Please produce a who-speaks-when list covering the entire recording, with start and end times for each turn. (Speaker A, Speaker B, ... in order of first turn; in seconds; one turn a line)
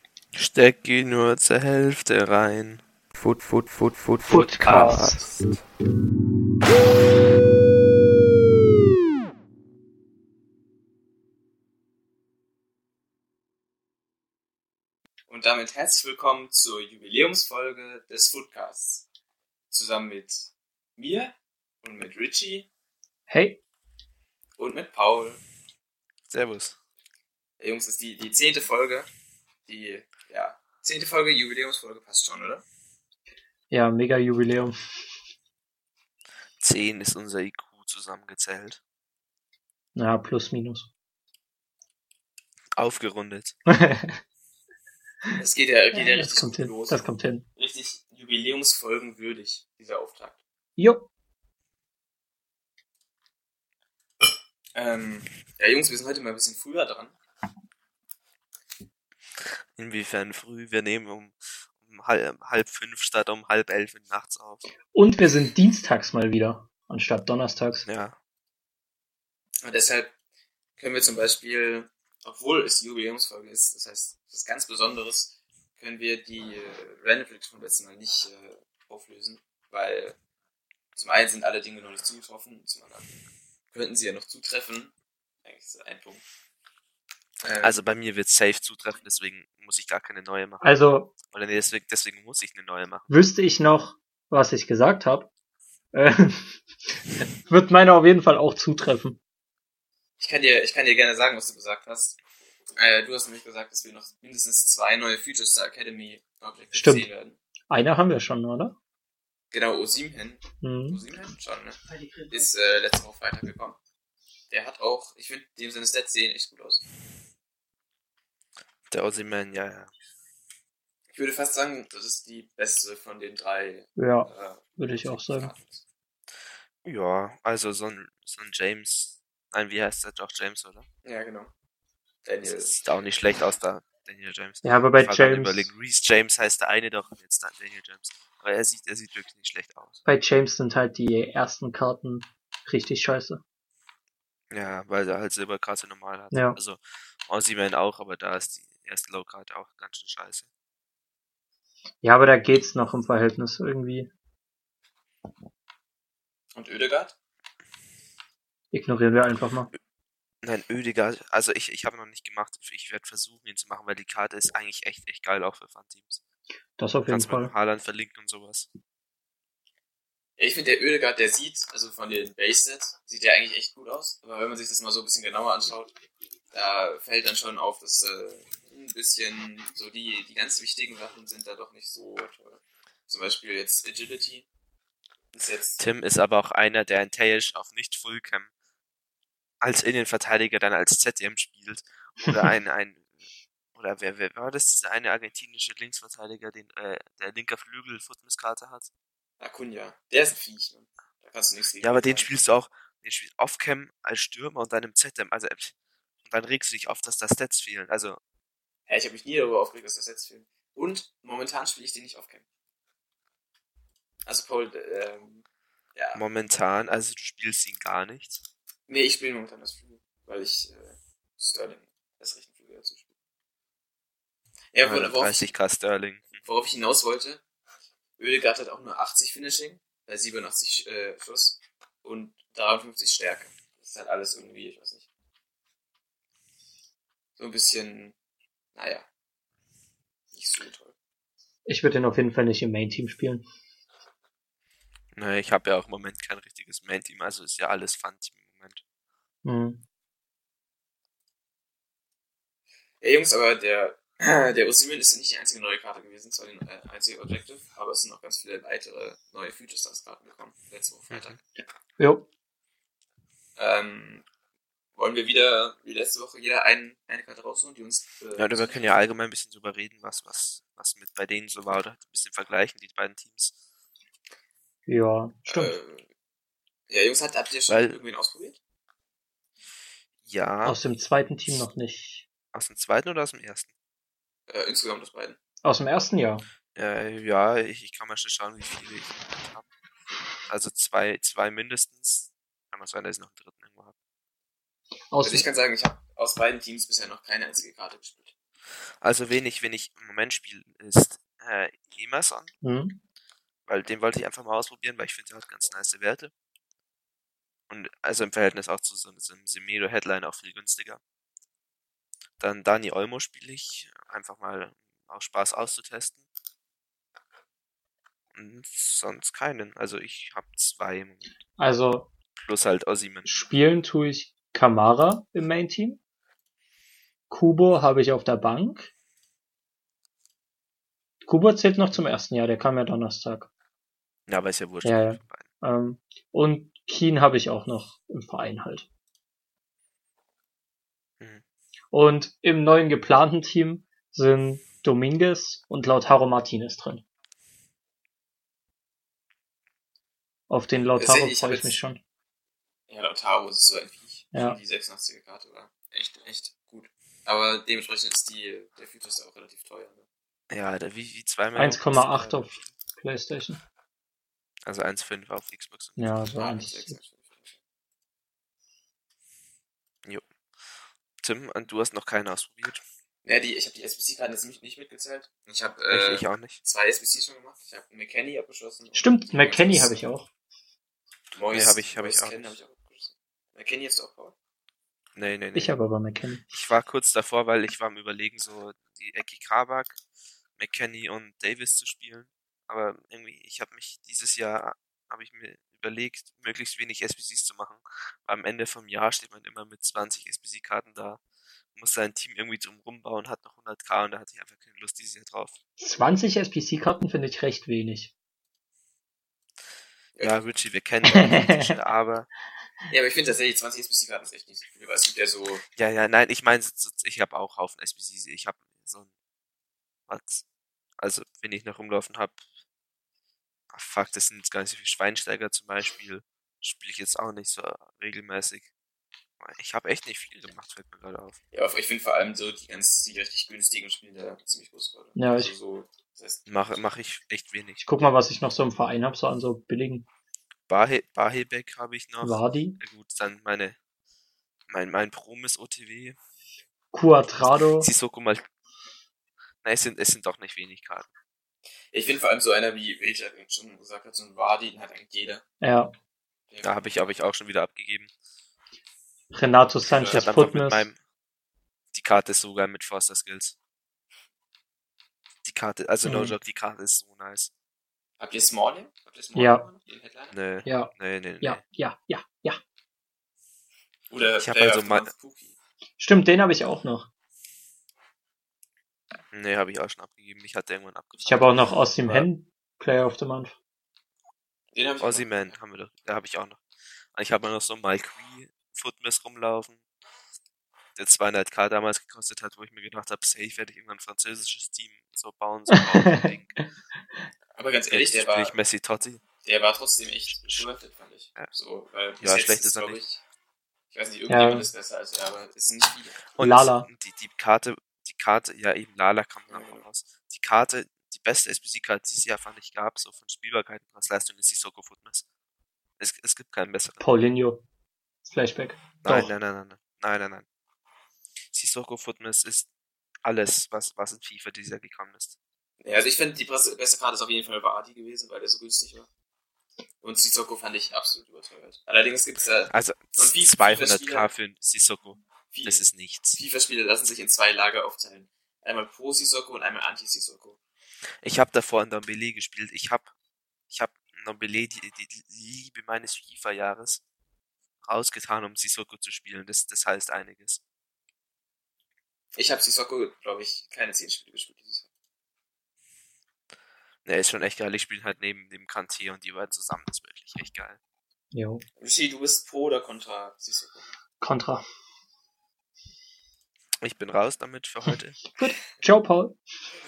Speaker A: 0.3-2.8
Speaker B: 3.1-5.3
Speaker C: 4.3-5.2
Speaker A: 4.6-5.4
Speaker D: 15.3-19.1
Speaker D: 19.7-22.7
Speaker C: 23.3-23.6
Speaker D: 24.6-25.4
Speaker A: 26.3-26.8
Speaker D: 27.6-29.1
Speaker D: 29.7-32.6
Speaker C: 33.7-34.7
Speaker A: 36.6-38.8
Speaker C: 40.0-40.9
Speaker A: 42.8-43.5
Speaker C: 43.7-44.2
Speaker D: 45.4-50.4
Speaker C: 45.9-47.4
Speaker C: 50.8-51.1
Speaker D: 54.7-57.2
Speaker A: 59.4-64.6
Speaker C: 64.9-67.9
Speaker A: 67.8-68.2
Speaker D: 69.6-70.1
Speaker D: 70.8-80.2
Speaker D: 80.9-83.2
Speaker D: 83.7-84.9
Speaker D: 85.4-86.2
Speaker D: 87.4-87.8
Speaker A: 87.6-90.6
Speaker C: 90.6-91.1
Speaker A: 91.2-93.1
Speaker C: 93.1-95.3
Speaker C: 95.9-99.2
Speaker D: 100.2-102.2
Speaker D: 102.8-107.4
Speaker C: 106.7-107.1
Speaker C: 107.7-108.8
Speaker D: 109.5-113.8
Speaker C: 110.6-111.0
Speaker D: 114.5-116.8
Speaker A: 118.9-119.9
Speaker D: 121.1-125.8
Speaker C: 124.0-125.5
Speaker A: 126.8-130.8
Speaker D: 131.0-131.5
Speaker D: 132.2-132.8
Speaker A: 132.4-140.0
Speaker C: 134.6-135.7
Speaker C: 140.0-143.4
Speaker A: 144.5-150.5
Speaker C: 146.3-146.6
Speaker C: 152.0-154.1
Speaker D: 156.5-157.1
Speaker C: 158.7-159.7
Speaker A: 160.4-166.2
Speaker C: 166.8-167.5
Speaker A: 167.1-168.7
Speaker D: 170.4-175.9
Speaker D: 176.5-184.4
Speaker D: 185.3-185.8
Speaker A: 185.8-188.5
Speaker A: 189.6-193.1
Speaker A: 193.7-198.9
Speaker D: 199.4-202.3
Speaker A: 201.8-208.2
Speaker D: 208.9-212.4
Speaker D: 214.2-216.2
Speaker A: 216.1-218.4
Speaker D: 218.9-223.1
Speaker D: 224.7-225.5
Speaker A: 224.8-226.4
Speaker D: 226.4-227.4
Speaker D: 228.2-235.1
Speaker D: 237.4-238.1
Speaker D: 238.7-239.1
Speaker D: 240.3-240.9
Speaker C: 241.7-243.4
Speaker A: 245.1-248.8
Speaker C: 249.4-249.8
Speaker D: 253.0-261.4
Speaker A: 261.1-261.4
Speaker C: 262.0-262.3
Speaker D: 263.6-264.2
Speaker D: 264.9-268.8
Speaker A: 268.4-273.5
Speaker C: 274.9-275.8
Speaker D: 275.5-276.1
Speaker D: 276.9-278.6
Speaker A: 277.7-278.0
Speaker A: 280.2-280.8
Speaker C: 280.6-282.2
Speaker A: 282.5-283.7
Speaker D: 284.5-285.4
Speaker C: 285.6-286.4
Speaker A: 286.7-289.7
Speaker A: 290.4-293.9
Speaker C: 295.1-295.5
Speaker D: 295.2-298.3
Speaker A: 299.0-302.5
Speaker C: 302.6-303.0
Speaker A: 303.7-306.3
Speaker A: 307.7-311.0
Speaker A: 312.4-316.2
Speaker A: 318.3-321.3
Speaker C: 321.6-322.1
Speaker A: 322.4-323.3
Speaker C: 323.2-326.0
Speaker C: 327.3-328.9
Speaker C: 331.2-333.5
Speaker A: 334.3-335.5
Speaker C: 334.8-338.9
Speaker C: 341.9-347.0
Speaker C: 350.5-352.0
Speaker D: 351.0-351.8
Speaker D: 352.9-360.1
Speaker A: 360.5-362.6
Speaker C: 361.6-363.6
Speaker A: 364.6-366.0
Speaker C: 366.0-367.0
Speaker D: 366.4-367.6
Speaker A: 371.2-372.8
Speaker D: 373.2-380.1
Speaker A: 375.9-376.6
Speaker C: 378.9-380.3
Speaker D: 381.3-384.3
Speaker A: 381.5-382.5
Speaker A: 385.1-385.8
Speaker C: 385.5-386.5
Speaker A: 386.5-390.0
Speaker A: 390.6-401.2
Speaker A: 401.7-405.5
Speaker C: 405.8-408.1
Speaker A: 410.2-412.3
Speaker C: 411.1-411.7
Speaker D: 412.9-415.6
Speaker A: 415.8-419.1
Speaker A: 420.1-420.4
Speaker A: 421.0-422.4
Speaker A: 423.7-428.7
Speaker A: 429.4-431.4
Speaker D: 431.5-436.4
Speaker C: 435.1-435.5
Speaker A: 436.5-437.8
Speaker C: 437.8-440.1
Speaker A: 440.7-443.8
Speaker C: 442.2-442.8
Speaker A: 444.7-446.2
Speaker C: 446.9-447.9
Speaker A: 447.8-448.4
Speaker A: 449.6-451.1
Speaker D: 451.9-455.4
Speaker C: 455.6-455.9
Speaker D: 456.5-457.1
Speaker A: 456.6-458.1
Speaker C: 459.3-460.9
Speaker D: 459.9-460.2
Speaker A: 460.1-461.0
Speaker A: 461.9-463.5
Speaker A: 465.4-467.5
Speaker C: 466.0-466.3
Speaker D: 468.2-470.4
Speaker C: 469.4-469.6
Speaker A: 470.3-471.6
Speaker C: 470.6-472.6
Speaker D: 474.1-475.5
Speaker A: 474.4-475.1
Speaker C: 476.0-477.1
Speaker A: 479.3-482.2
Speaker C: 481.2-483.5
Speaker D: 484.7-485.5
Speaker A: 485.0-486.6
Speaker A: 487.1-489.8
Speaker A: 490.9-496.6
Speaker C: 495.8-496.2
Speaker D: 497.6-498.6
Speaker A: 497.9-499.2
Speaker D: 499.4-503.2
Speaker A: 500.4-500.7
Speaker A: 502.2-503.0
Speaker D: 503.9-506.2
Speaker C: 504.3-504.7
Speaker A: 506.3-515.2
Speaker C: 506.4-506.9
Speaker D: 509.5-509.8
Speaker A: 516.0-517.0
Speaker C: 517.0-517.6
Speaker C: 518.2-519.3
Speaker A: 519.0-520.5
Speaker A: 521.5-522.7
Speaker A: 523.2-525.4
Speaker D: 525.8-529.1
Speaker D: 530.0-534.3
Speaker A: 532.7-536.4
Speaker D: 535.5-540.6
Speaker A: 541.2-543.1
Speaker A: 543.7-547.0
Speaker A: 547.8-550.6
Speaker D: 552.4-554.9
Speaker A: 557.0-560.8
Speaker C: 561.3-561.6
Speaker D: 561.8-563.9
Speaker C: 564.2-564.6
Speaker A: 566.8-568.2
Speaker C: 568.4-569.4